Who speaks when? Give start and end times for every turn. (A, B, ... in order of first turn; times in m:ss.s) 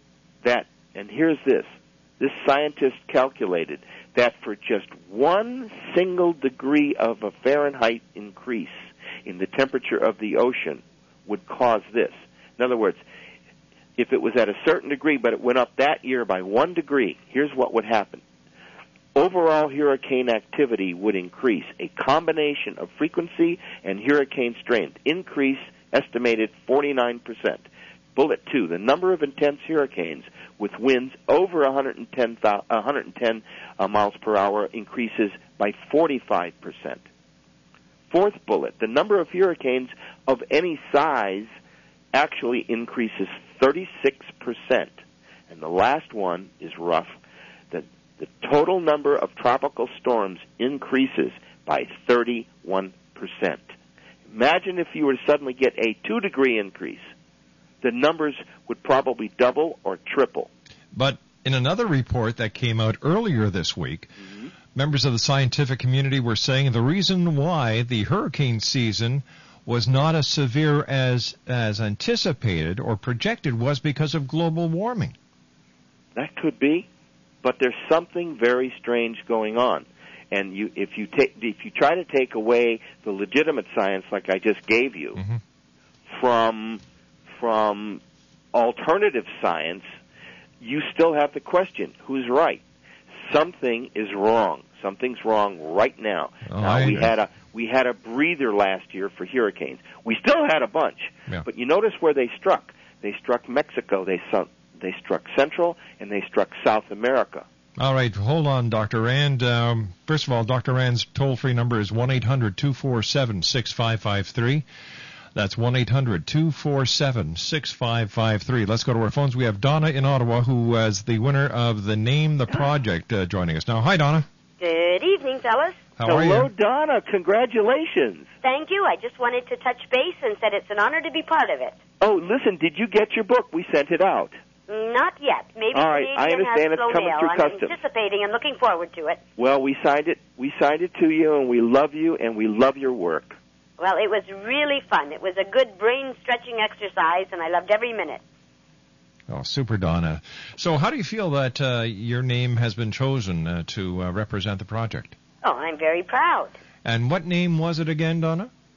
0:00.4-0:13.0 A
0:14.0-0:18.2 A
0:19.1-0:27.6 A
0:28.2-0:37.0 A
0:38.1-0:41.5 A
0:42.1-0:44.9 A
0:45.5-0:47.2 A
0:47.7-0:53.7 A
0:54.3-0:57.1 A
0:57.8-1:00.5 A
1:00.9-1:04.1 B
1:04.2-1:04.5 A
1:04.7-1:15.2 B
1:16.1-1:16.9 A
1:17.4-1:25.2 A
1:25.2-1:25.4 B
1:26.1-1:26.8 A
1:27.3-1:28.0 A
1:28.5-1:29.9 A
1:30.6-1:32.6 A
1:33.2-1:47.4 A
1:36.4-1:37.1 B
1:47.8-1:54.6 B
1:55.3-2:04.3 B
2:04.6-2:05.8 C
2:06.0-2:06.5 B
2:06.0-2:08.3 A
2:08.4-2:11.8 C
2:12.0-2:14.3 A
2:14.7-2:19.2 C
2:15.7-2:17.8 A
2:19.4-2:23.4 A
2:23.8-2:28.2 C
2:29.3-2:35.2 B
2:35.4-2:36.5 C
2:36.8-2:38.5 B